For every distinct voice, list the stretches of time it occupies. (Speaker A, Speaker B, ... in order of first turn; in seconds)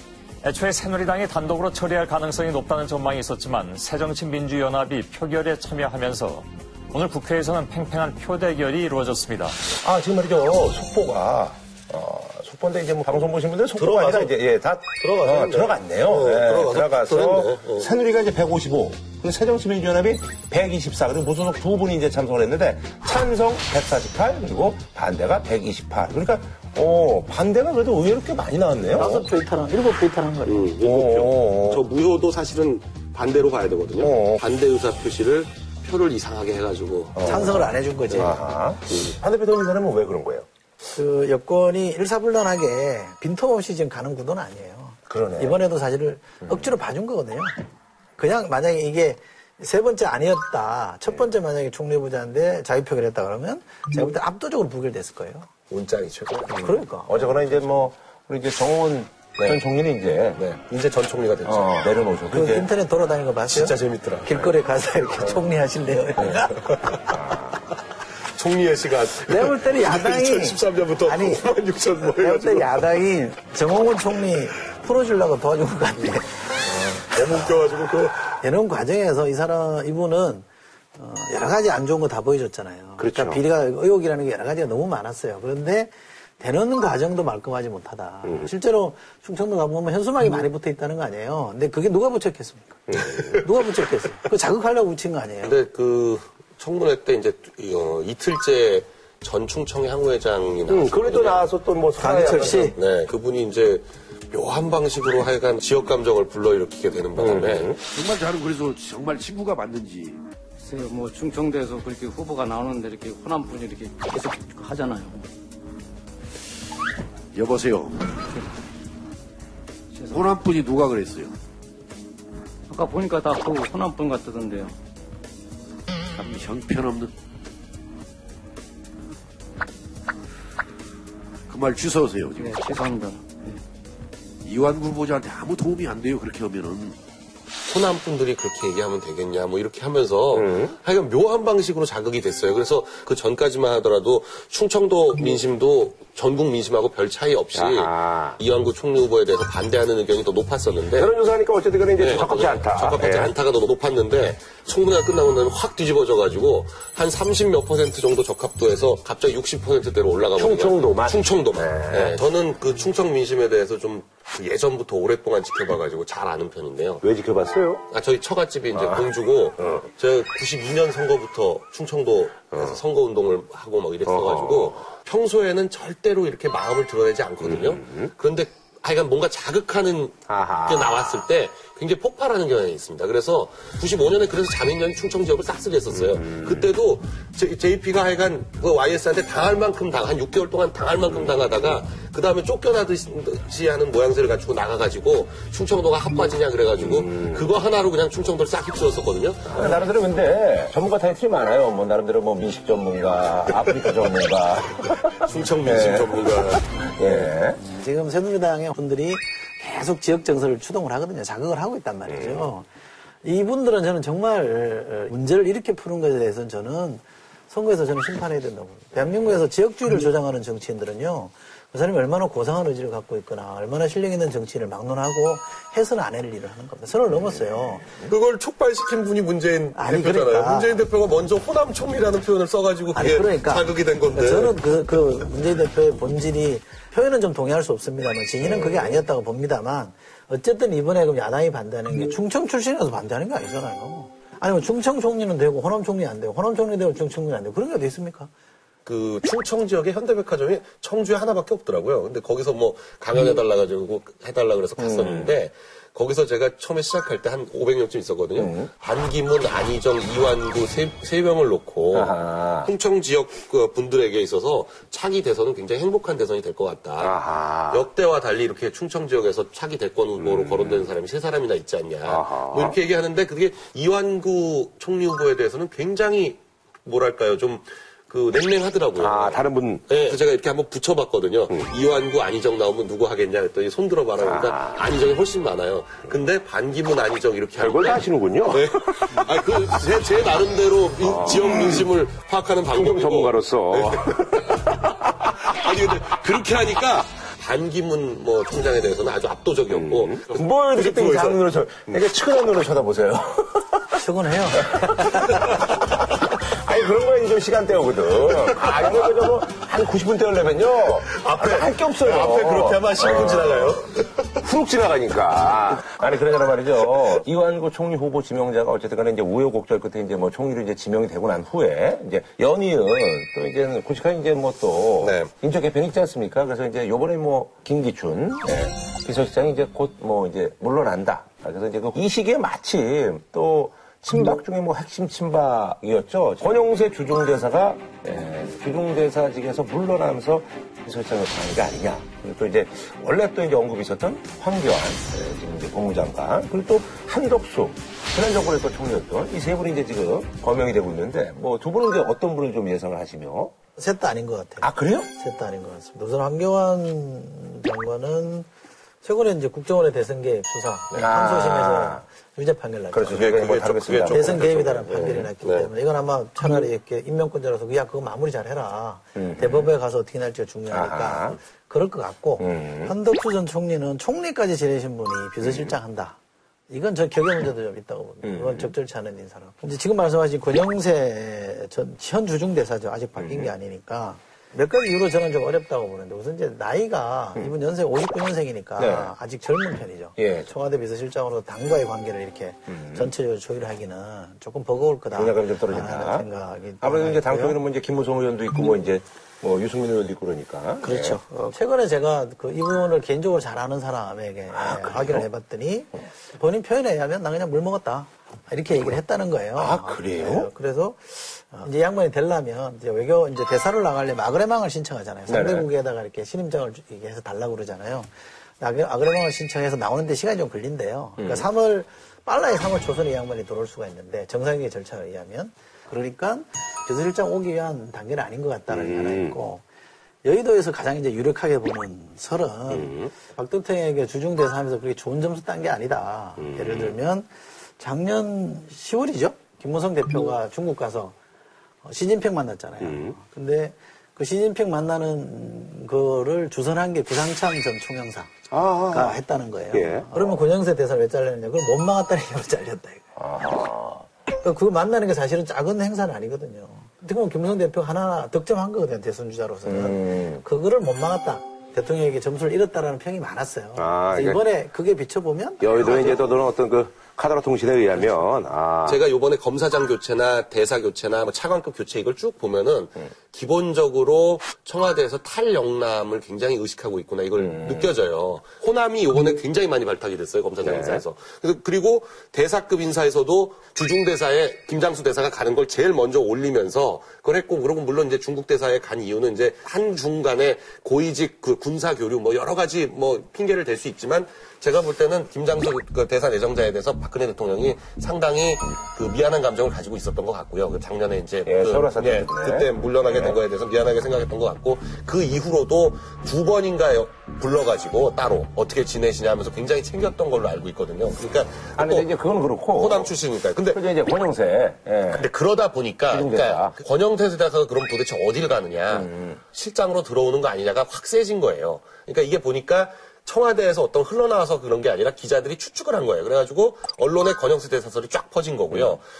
Speaker A: 0.4-9.6
Speaker B: 9.8-29.3, 30.8-31.8, 34.0-34.4, 37.1-40.5, 45.1-45.6, 56.5-60.4, 61.4-62.7, 67.1-67.6, 83.0-83.4, 88.2-88.5, 92.9-93.4, 100.7-102.8, 107.2-107.8, 140.3-140.8, 147.5-148.4, 150.9-153.3, 160.3-162.2, 167.0-167.8, 168.7-169.1, 169.6-169.8, 172.5-172.8, 174.1-174.8, 177.4-178.1, 180.3-181.2, 185.9-186.7, 191.1-191.8, 196.8-197.5, 199.4-207.6, 212.1-212.5, 227.1-228.1, 238.4-239.0, 254.8-255.3, 258.4-258.7, 261.9-262.7, 267.0-267.9, 270.2-270.9, 272.0-272.8, 278.9-280.1, 284.2-284.9, 287.6-289.3, 291.0-291.9, 292.7-295.5, 299.7-303.9, 304.6-353.5, 354.6-355.1, 360.9-362.0, 362.9-365.2, 369.1-369.7, 370.7-371.4, 372.4-372.9, 375.4-375.7, 378.2-378.7, 383.2-383.5, 388.8-389.1, 390.2-390.5, 392.7-393.1, 395.1-396.3, 396.8-401.2, 404.5-405.2, 409.6-410.5, 415.3-415.7, 421.2-421.5, 428.7-429.4, 432.7-433.1, 436.4-437.0, 442.8-443.2, 448.5-449.2, 449.7-450.4, 453.1-454.1, 459.6-460.4, 463.8-464.4, 465.6-469.0, 477.4-477.9, 480.6-481.0, 501.4-503.4, 511.8-515.3, 516.1-516.7, 518.9-519.4, 528.7-529.0
Speaker C: 13.8-14.3, 15.0-17.9, 30.4-37.2, 38.9-39.1, 55.7-56.6, 60.4-61.9, 63.5-64.3, 68.4-72.9, 76.9-78.4, 93.0-93.4, 95.4-101.5, 102.8-107.8, 137.7-151.1, 152.0-167.0, 167.9-199.8, 205.2-207.1, 228.1-234.6, 248.8-301.4, 305.4-305.6, 308.5-309.2, 311.0-314.4, 325.0-325.3, 363.1-365.7, 468.9-512.1, 512.7-513.8, 515.1-529.0
Speaker D: 28.9-30.7, 37.2-38.3, 40.9-47.5, 48.2-55.5, 56.6-57.8, 62.3-66.8, 69.2-71.4, 72.1-76.5, 78.4-95.5, 102.0-102.8, 207.6-212.7, 213.2-227.9, 229.7-230.8, 232.9-248.3, 304.0-305.4, 353.8-358.5, 359.0-363.3, 364.1-376.2, 376.7-397.6, 400.8-418.1, 418.6-429.6, 430.2-437.3, 437.8-441.1, 441.8-448.3, 448.9-453.0, 454.4-465.9
Speaker E: 107.9-110.2, 117.3-118.2, 120.1-121.3, 126.2-127.1, 131.5-132.7, 134.4-137.0
Speaker F: 110.6-115.2, 119.9-120.2, 122.7-124.7, 132.4-133.6